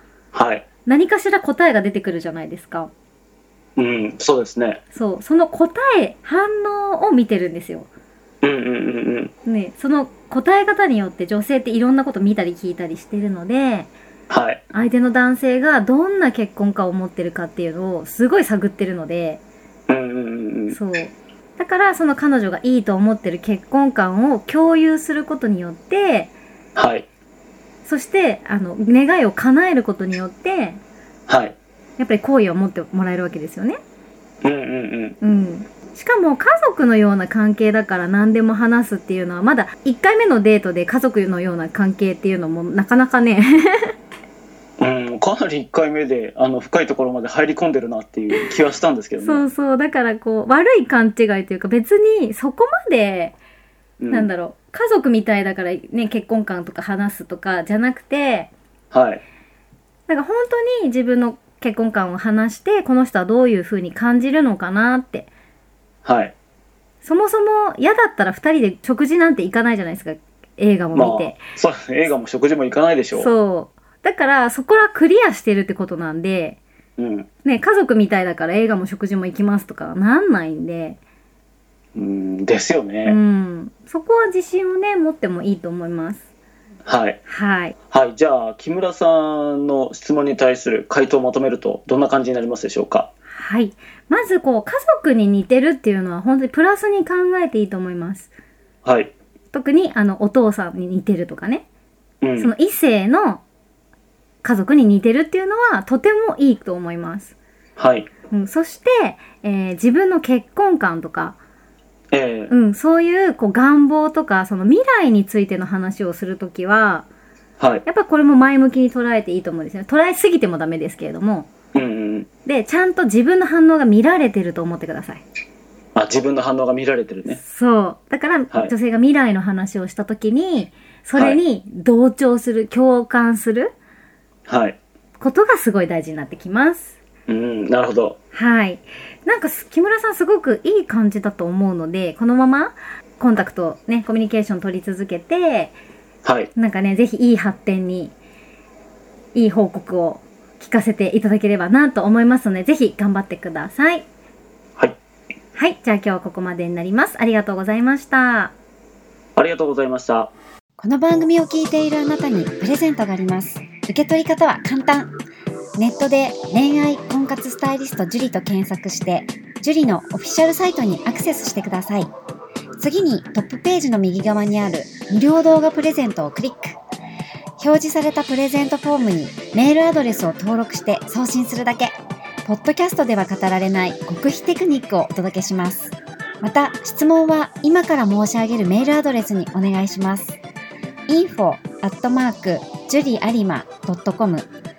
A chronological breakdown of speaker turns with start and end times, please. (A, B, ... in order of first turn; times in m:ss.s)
0:00.3-0:00.7 A
0:00.9-0:02.9 B
0:03.8-0:04.8 A
0:04.9-0:07.9 B
0:08.4-0:09.3 A
0:09.5-0:13.9 B
0:14.3-0:14.7 A
0:14.7-0:19.4 B
0:19.9-0:20.8 A
0:20.7-0:26.3 B
0:26.8-0:27.1 A
0:27.8-0:30.8 B
0:31.3-0:31.6 A
0:32.0-0:33.8 B
0:34.4-0:35.2 A
0:35.2-0:44.0 B
0:44.8-0:49.5 A
0:49.2-0:53.4 B
0:54.0-0:54.3 A
0:54.1-0:58.5 B
0:58.9-0:59.2 A
1:00.1-1:05.3 B
1:06.0-1:06.3 A
1:07.0-1:11.4 B
1:10.9-1:13.3 A
1:13.1-1:16.6 B
1:17.0-1:17.3 A
1:17.4-1:21.0 B
1:22.0-1:23.2 A
1:23.0-1:26.2 B
1:26.9-1:27.2 A
1:27.3-1:27.8 B
1:27.9-1:33.1 A
1:33.3-1:38.3 B
1:38.8-1:39.1 A
1:39.5-1:41.6 B
1:42.2-1:42.5 A
1:42.4-1:43.4 B
1:44.4-1:47.3 B
1:47.8-1:48.1 A
1:48.3-1:51.4 B
1:52.1-1:52.5 A
1:52.5-1:57.1 B
1:57.6-1:57.8 A
1:57.9-2:01.5 B
2:01.7-2:02.3 A
2:02.5-2:05.2 B
2:06.0-2:07.4 A
2:07.2-2:13.7 B
2:11.2-2:11.4 A
2:14.5-2:14.8 A
2:15.2-2:17.0 B
2:17.3-2:18.2 A
2:18.3-2:25.7 B
2:26.2-2:26.5 A
2:26.6-2:28.2 B
2:29.4-2:34.1 B
2:35.6-2:38.5 B
2:39.4-2:40.3 A
2:40.8-2:45.1 C
2:45.8-2:52.1 C
2:52.8-2:56.8 C
2:57.6-3:10.4 C
3:11.1-3:14.5 C